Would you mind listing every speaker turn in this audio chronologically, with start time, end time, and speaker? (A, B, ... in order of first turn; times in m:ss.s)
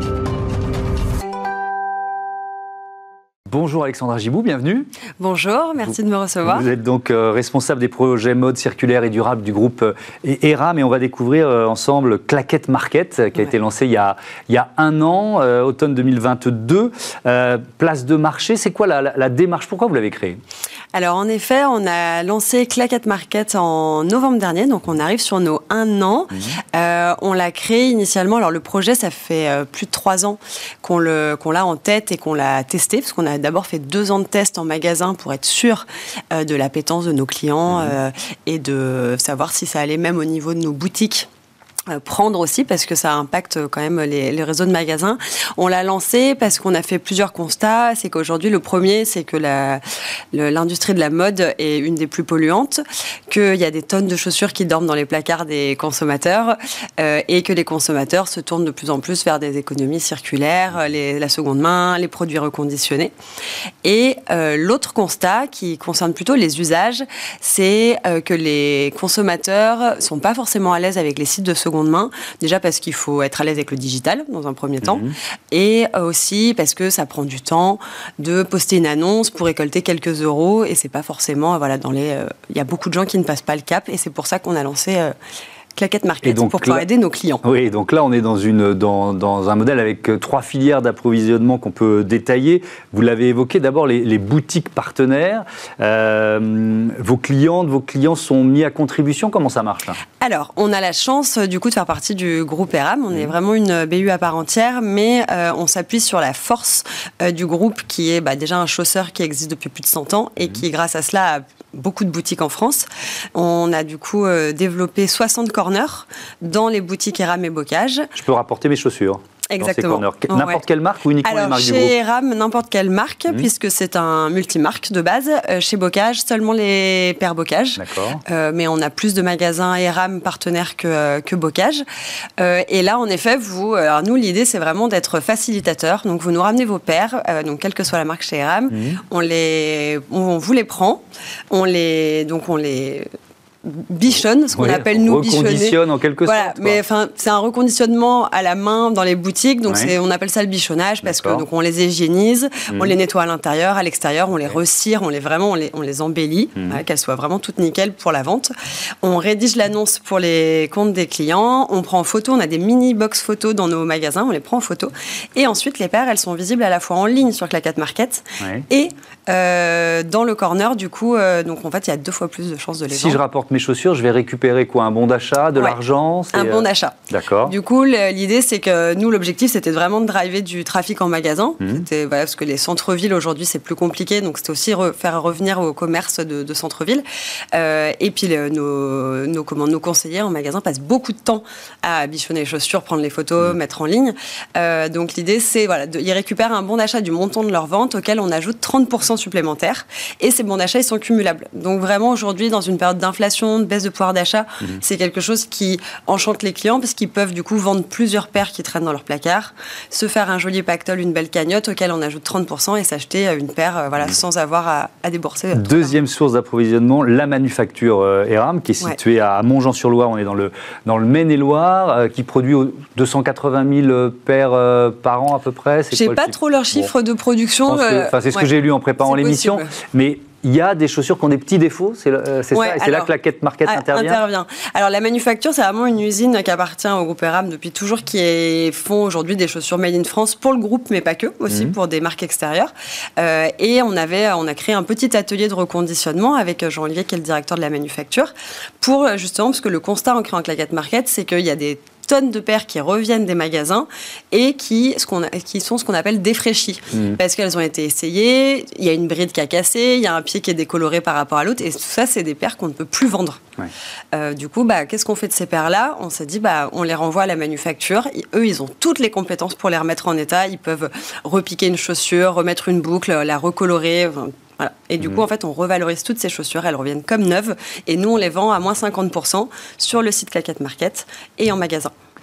0:03.5-0:04.9 A
0:05.2-0:06.6 B
0:05.8-0:20.4 A
0:20.9-0:41.3 B
0:37.7-0:37.9 A
0:41.9-0:49.8 B
0:50.3-1:03.1 B
1:03.8-1:25.1 B
1:14.8-1:15.1 A
1:25.8-1:27.4 B
1:26.2-1:26.8 A
1:27.4-1:40.0 A
1:40.2-1:58.1 B
1:58.1-2:01.9 A
1:59.5-2:00.6 B
2:01.2-2:11.8 B
2:07.8-2:08.2 A
2:12.4-2:23.1 B
2:18.7-2:19.0 A
2:23.6-2:38.5 B
2:24.5-2:26.8 A
2:29.7-2:29.9 A
2:31.0-2:31.4 A
2:32.7-2:32.9 A
2:36.6-2:36.8 A
2:39.0-2:53.2 B
2:48.4-2:48.6 A
2:52.9-2:57.6 A
2:56.3-3:35.9 B
3:35.5-3:46.9 A
3:45.9-3:48.5 B
3:47.7-3:54.2 A
3:49.0-3:49.7 B
3:52.5-3:53.1 B
3:53.6-4:23.4 B
4:01.5-4:01.7 A
4:16.9-4:17.2 A
4:24.1-4:41.9 B